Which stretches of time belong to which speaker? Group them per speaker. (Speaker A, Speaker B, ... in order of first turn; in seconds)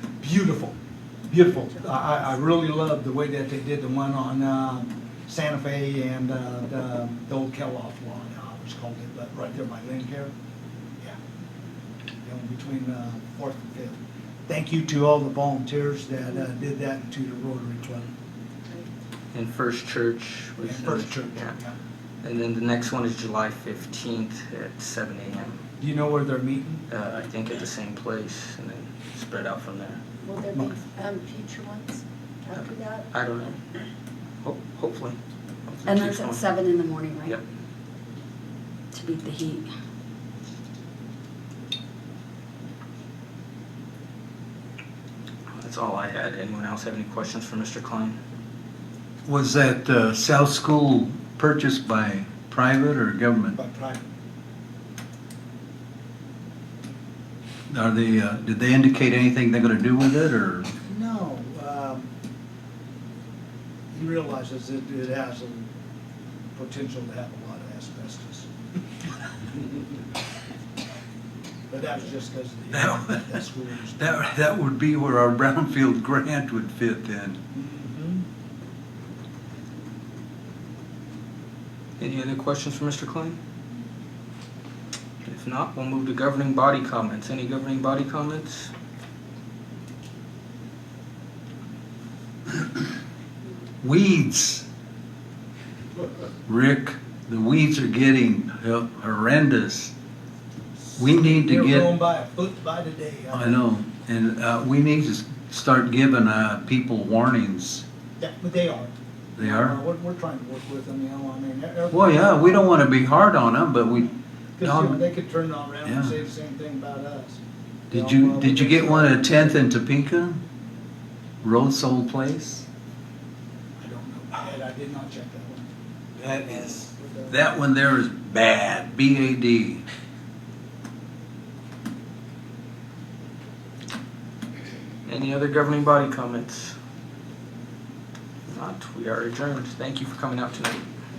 Speaker A: 0.2-0.8, 1.3-10.3, 12.2-18.1, 20.6-21.8, 25.8-26.9, 53.5-54.1, 60.9-62.1, 63.9-65.7, 66.5-68.5, 69.6-69.8, 71.7-74.2, 77.5-78.2, 100.9-103.6, 108.2-112.7, 114.0-119.6, 123.8-125.7, 126.2-127.4
Speaker B: 19.3-21.6, 22.2-25.6, 26.9-30.0, 32.5-33.7, 34.4-36.5, 45.5-48.2, 82.0-83.4, 85.2-88.7, 135.1-136.8, 138.5-140.8
Speaker C: 30.2-33.1, 35.9-37.4, 38.9-39.7
Speaker D: 49.3-53.6, 57.7-60.7, 72.7-73.5, 74.0-77.4, 92.5-92.9, 93.8-94.7, 96.5-99.9, 101.0-101.9, 103.3-107.8, 109.4-109.8, 111.9-114.1, 114.6-115.0, 115.8-116.1, 117.9-120.4, 121.4-122.7, 126.2-129.8